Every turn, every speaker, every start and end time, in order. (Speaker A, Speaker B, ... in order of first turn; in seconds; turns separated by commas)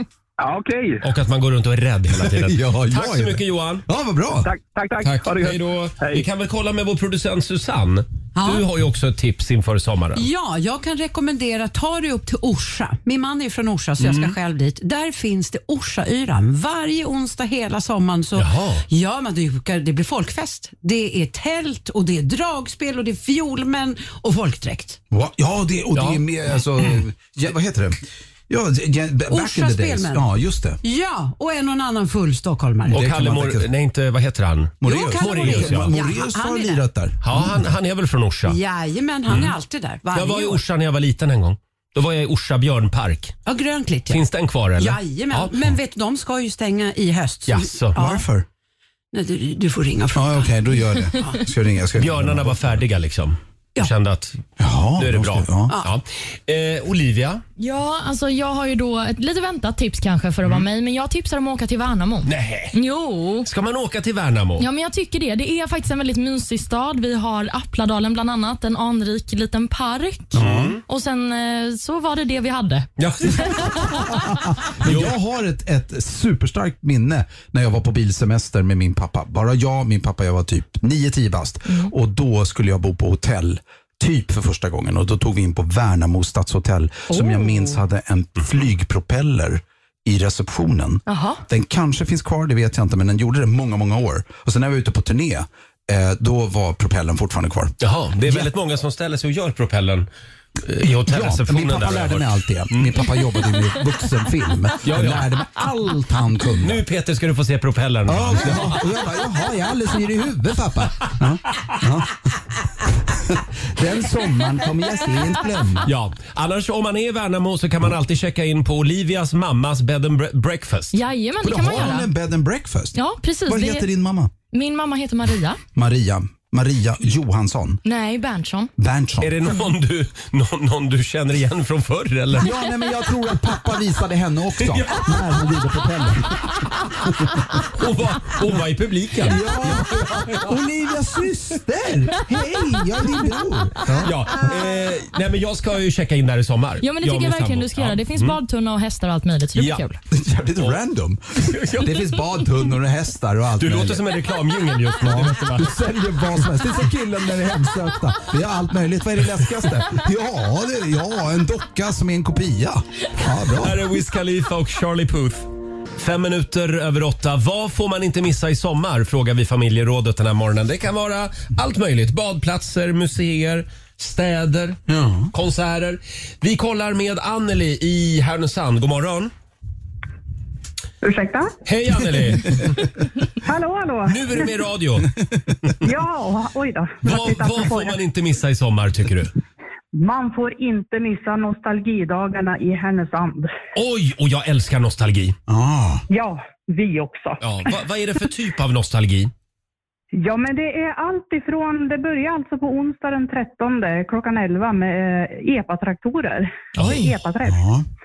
Speaker A: 0.4-1.0, Speaker B: 1.0-3.8, Speaker C: 2.1-4.5, Speaker A: 4.4-6.2, Speaker B: 5.0-10.2, Speaker D: 8.3-8.7, Speaker D: 10.1-25.0, Speaker B: 14.0-14.3, Speaker B: 18.4-18.8, Speaker C: 25.1-30.8, Speaker B: 25.9-26.2, Speaker D: 29.3-30.3, Speaker D: 30.8-33.0, Speaker C: 32.9-33.7, Speaker B: 32.9-36.0, Speaker C: 34.8-37.7, Speaker D: 34.8-36.9, Speaker B: 37.2-38.6, Speaker D: 38.4-40.6, Speaker B: 39.3-39.5, Speaker B: 40.1-43.4, Speaker D: 43.5-48.3, Speaker B: 44.1-45.5, Speaker B: 47.5-48.0, Speaker C: 47.9-48.5, Speaker D: 49.1-51.4, Speaker C: 50.1-52.8, Speaker B: 52.0-54.4, Speaker C: 54.6-55.7, Speaker B: 55.0-57.4, Speaker D: 55.7-55.9, Speaker E: 57.6-63.5, Speaker B: 62.2-62.7, Speaker B: 63.4-64.7, Speaker E: 64.6-74.1, Speaker C: 70.3-70.8, Speaker B: 70.4-70.8, Speaker B: 73.0-73.9, Speaker C: 73.9-98.5, Speaker B: 74.8-75.1, Speaker E: 87.1-87.8, Speaker E: 91.1-91.4, Speaker B: 97.8-100.1, Speaker B: 100.6-103.1, Speaker C: 101.0-106.8, Speaker B: 104.8-105.3, Speaker B: 106.6-108.8, Speaker C: 108.1-112.1, Speaker C: 113.1-115.9, Speaker B: 115.8-121.0, Speaker E: 120.9-122.1, Speaker C: 121.4-124.3, Speaker E: 122.9-123.9, Speaker E: 124.5-125.6, Speaker C: 125.7-127.8, Speaker E: 127.8-128.7, Speaker C: 128.8-129.5, Speaker B: 129.2-132.6, Speaker C: 132.3-136.5, Speaker B: 134.6-135.5, Speaker B: 137.5-140.6, Speaker C: 139.2-144.2, Speaker B: 144.0-148.4, Speaker E: 146.8-150.0, Speaker B: 149.6-149.8, Speaker C: 150.1-154.2, Speaker B: 151.4-152.4, Speaker B: 153.6-155.7, Speaker C: 155.0-163.8, Speaker B: 163.6-165.4, Speaker B: 166.0-174.8, Speaker C: 174.9-175.3, Speaker B: 175.3-179.3, Speaker F: 181.0-181.5, Speaker B: 181.7-182.8, Speaker F: 183.4-184.5, Speaker B: 184.1-185.1, Speaker F: 185.8-188.0, Speaker B: 187.0-189.3, Speaker F: 189.9-193.5, Speaker B: 193.7-195.3, Speaker C: 195.5-196.0, Speaker F: 196.1-197.7, Speaker B: 197.4-199.3, Speaker F: 200.1-207.6, Speaker B: 206.8-207.1, Speaker C: 207.4-207.8